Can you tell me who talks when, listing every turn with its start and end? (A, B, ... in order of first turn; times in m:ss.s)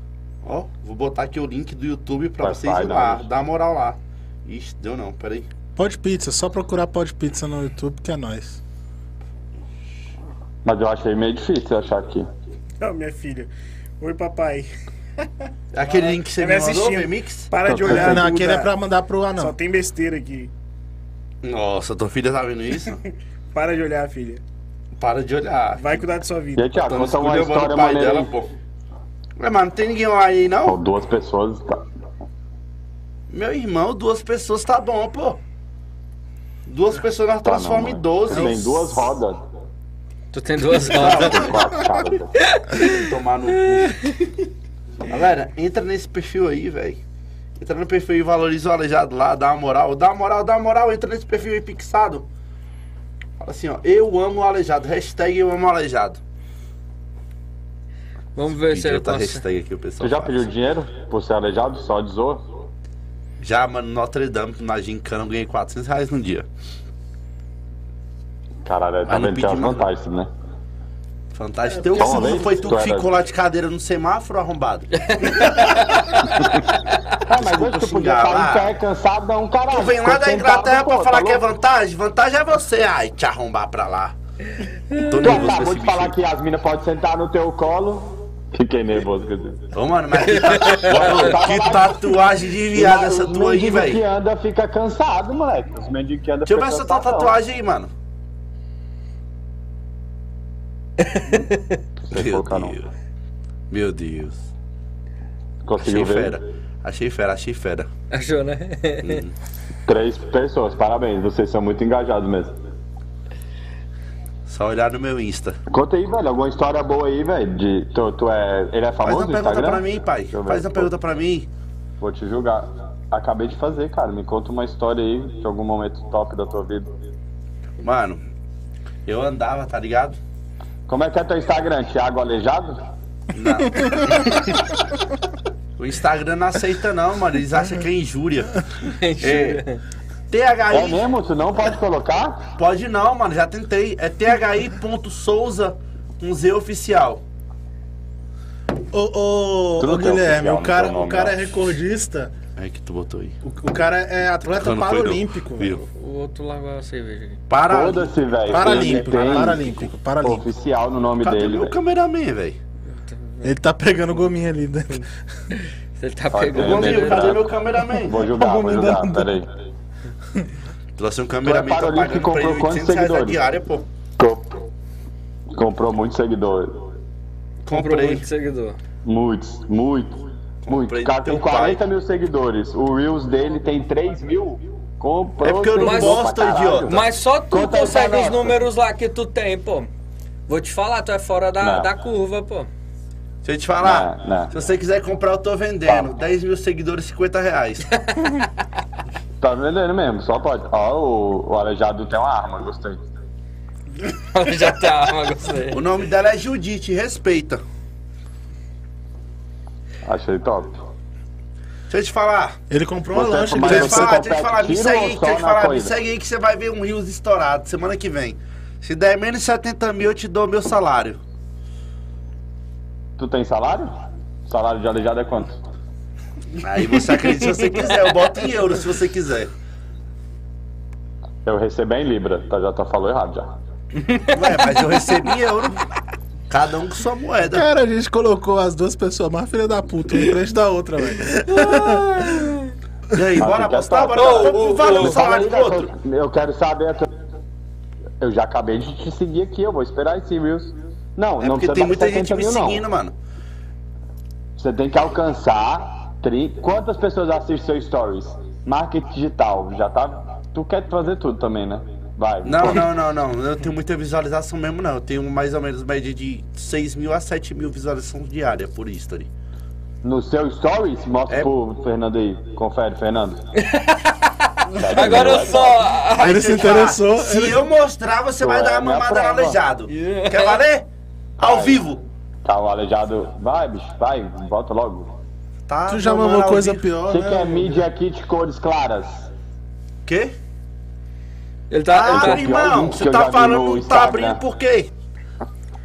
0:00.4-0:05.5 A
0:02.4-0:03.2 B
0:05.8-0:08.6 C
0:10.6-0:12.3 B
0:12.8-0:14.7 D
0:15.7-0:17.5 A
0:16.3-0:18.7 D
0:17.7-0:18.2 B
0:17.8-0:19.5 C
0:19.4-0:20.5 D
0:21.4-0:23.0 A
0:23.5-0:24.4 D
0:25.0-0:26.0 A
0:25.8-0:26.9 D
0:26.6-0:28.3 B
0:26.9-0:28.5 A
0:29.4-0:30.8 A
0:30.6-0:31.8 B
0:33.3-0:35.4 A
0:36.7-0:39.0 A
0:37.4-0:39.4 B
0:40.3-0:41.5 E
0:40.9-0:41.7 A
0:41.0-0:42.3 B
0:42.4-0:43.0 E
0:42.7-0:44.0 A
0:43.8-0:44.1 E
0:45.1-0:47.0 A
0:47.6-0:52.3 A
0:53.4-0:56.2 A
0:58.3-0:59.4 E
0:58.5-1:00.5 A
1:00.0-1:02.4 B
1:03.4-1:06.4 A
1:08.6-1:10.3 B
1:09.1-1:09.8 A
1:11.3-1:16.6 A
1:11.7-1:12.5 C
1:12.0-1:13.1 B
1:15.1-1:16.1 E
1:16.4-1:16.7 B
1:17.2-1:21.4 B
1:17.3-1:18.7 A
1:19.7-1:24.1 A
1:24.9-1:25.4 E
1:24.9-1:26.1 A
1:25.2-1:29.6 B
1:29.7-1:34.0 A
1:30.3-1:31.2 E
1:30.6-1:32.2 B
1:32.7-1:37.3 B
1:36.5-1:37.9 A
1:41.0-1:41.8 E
1:42.0-1:42.8 B
1:42.1-1:42.9 A
1:43.7-1:44.5 A
1:45.6-1:46.4 B
1:45.8-1:47.9 A
1:48.1-1:49.2 E
1:49.0-1:49.3 A
1:49.8-1:52.5 B
1:54.5-1:55.6 A
1:55.7-2:00.9 B
1:59.0-2:01.5 A
2:02.0-2:06.9 B
2:07.8-2:08.2 A
2:09.0-2:10.2 A
2:10.9-2:12.8 B
2:13.3-2:14.6 A
2:15.8-2:18.6 A
2:18.8-2:19.8 E
2:19.2-2:19.6 A
2:20.3-2:21.1 A
2:20.7-2:22.5 B
2:22.6-2:27.2 A
2:28.9-2:32.3 C
2:29.8-2:31.6 B
2:32.6-2:33.4 A
2:33.4-2:35.8 C
2:34.5-2:35.8 A
2:35.8-2:37.4 E
2:37.5-2:39.5 A
2:37.7-2:41.7 B
2:38.5-2:40.4 C
2:41.2-2:42.6 A
2:42.9-2:43.6 E
2:43.4-2:45.1 C
2:46.0-2:47.4 E
2:46.3-2:47.5 B
2:46.5-2:48.3 A
2:48.0-2:49.5 B
2:48.3-2:49.2 C
2:51.0-2:53.8 A
2:51.4-2:53.4 B
2:54.2-2:54.6 B
2:55.5-2:56.8 B
2:57.6-2:58.2 A
2:57.7-2:58.8 E
2:59.0-3:08.6 B
3:00.6-3:01.8 A
3:05.4-3:06.9 A
3:05.8-3:06.3 E
3:06.9-3:09.9 E
3:10.5-3:12.7 E
3:11.6-3:11.9 B
3:13.4-3:17.9 A
3:13.8-3:14.5 B
3:18.1-3:18.5 E
3:19.4-3:23.0 B
3:24.3-3:25.8 E
3:25.7-3:27.6 A
3:30.0-3:30.8 B
3:31.9-3:32.6 A
3:32.7-3:34.2 C
3:33.1-3:35.9 B
3:33.5-3:41.2 A
3:43.2-3:43.9 B
3:44.4-3:45.6 B
3:46.6-3:49.5 A
3:51.4-3:53.5 B
3:54.0-3:54.6 E
3:54.3-3:55.8 A
3:56.5-3:57.6 A
3:57.5-4:02.3 C
4:01.5-4:02.7 E
4:03.1-4:05.9 A
4:03.4-4:07.1 B
4:04.1-4:05.2 E
4:08.2-4:12.8 B
4:11.4-4:13.1 A
4:14.6-4:22.9 B
4:22.4-4:29.3 A
4:30.0-4:33.4 B
4:33.6-4:36.4 E
4:34.8-4:35.8 B
4:36.2-4:40.9 A
4:36.2-4:37.6 C
4:38.4-4:39.6 B
4:39.9-4:40.6 E
4:41.4-4:41.8 B
4:41.4-4:42.0 A
4:42.4-4:45.1 B
4:45.7-4:46.9 A
4:45.9-4:47.9 C
4:47.0-4:49.3 B
4:50.0-4:50.3 A
4:51.7-4:52.5 E
4:51.9-4:54.9 A
4:52.0-4:54.4 B